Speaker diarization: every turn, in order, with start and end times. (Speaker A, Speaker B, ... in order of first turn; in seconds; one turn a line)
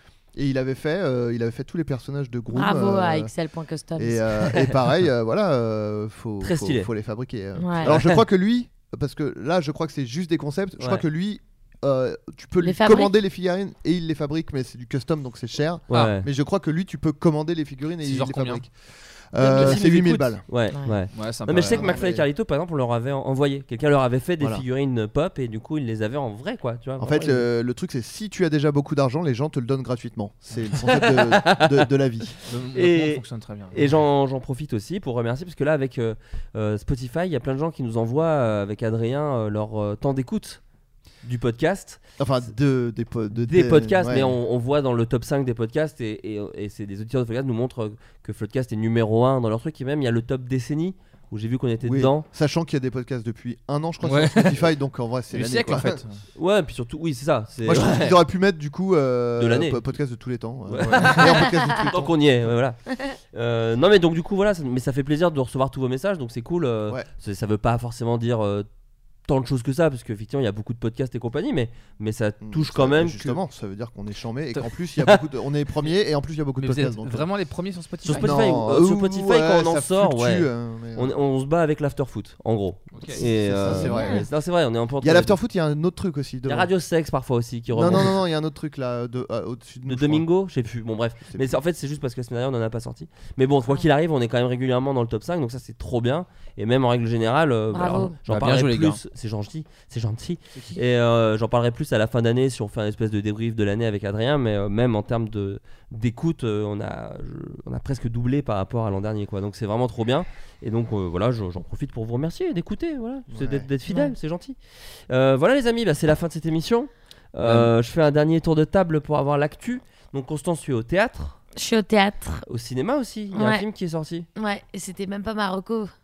Speaker A: 0.3-3.3
Speaker B: 2.5-4.3
Speaker A: 4.0-18.7
Speaker C: 6.4-6.9
Speaker B: 7.6-7.9
Speaker C: 7.8-8.2
Speaker B: 12.6-13.1
Speaker C: 15.9-16.3
Speaker D: 18.0-18.6
Speaker A: 19.3-20.4
Speaker C: 19.4-27.4
Speaker D: 21.1-22.0
Speaker A: 21.5-22.2
Speaker A: 27.0-32.3
Speaker C: 30.9-40.6
Speaker D: 32.5-33.8
Speaker C: 41.2-42.0
Speaker A: 42.2-44.4
Speaker C: 43.4-52.2
Speaker A: 51.8-56.0
Speaker D: 54.0-54.7
Speaker D: 55.3-56.2
Speaker C: 56.4-58.2
Speaker A: 57.6-62.1
Speaker C: 59.4-59.8
Speaker C: 60.7-62.8
Speaker D: 60.8-61.2
Speaker C: 63.3-68.7
Speaker C: 69.3-73.4
Speaker A: 72.4-77.2
Speaker D: 76.6-78.4
Speaker A: 78.0-81.1
Speaker C: 78.0-85.4
Speaker D: 82.9-83.2
Speaker A: 83.2-84.3
Speaker B: 83.7-84.2
Speaker A: 85.0-86.7
Speaker C: 86.5-88.2
Speaker A: 87.7-90.2
Speaker C: 89.9-114.6
Speaker B: 97.7-98.2
Speaker D: 98.3-99.0
Speaker D: 100.5-100.8
Speaker A: 113.3-113.7
Speaker C: 115.1-121.4
Speaker D: 117.4-117.7
Speaker B: 121.5-122.4
Speaker C: 122.5-124.3
Speaker B: 123.3-123.6
Speaker B: 124.3-125.9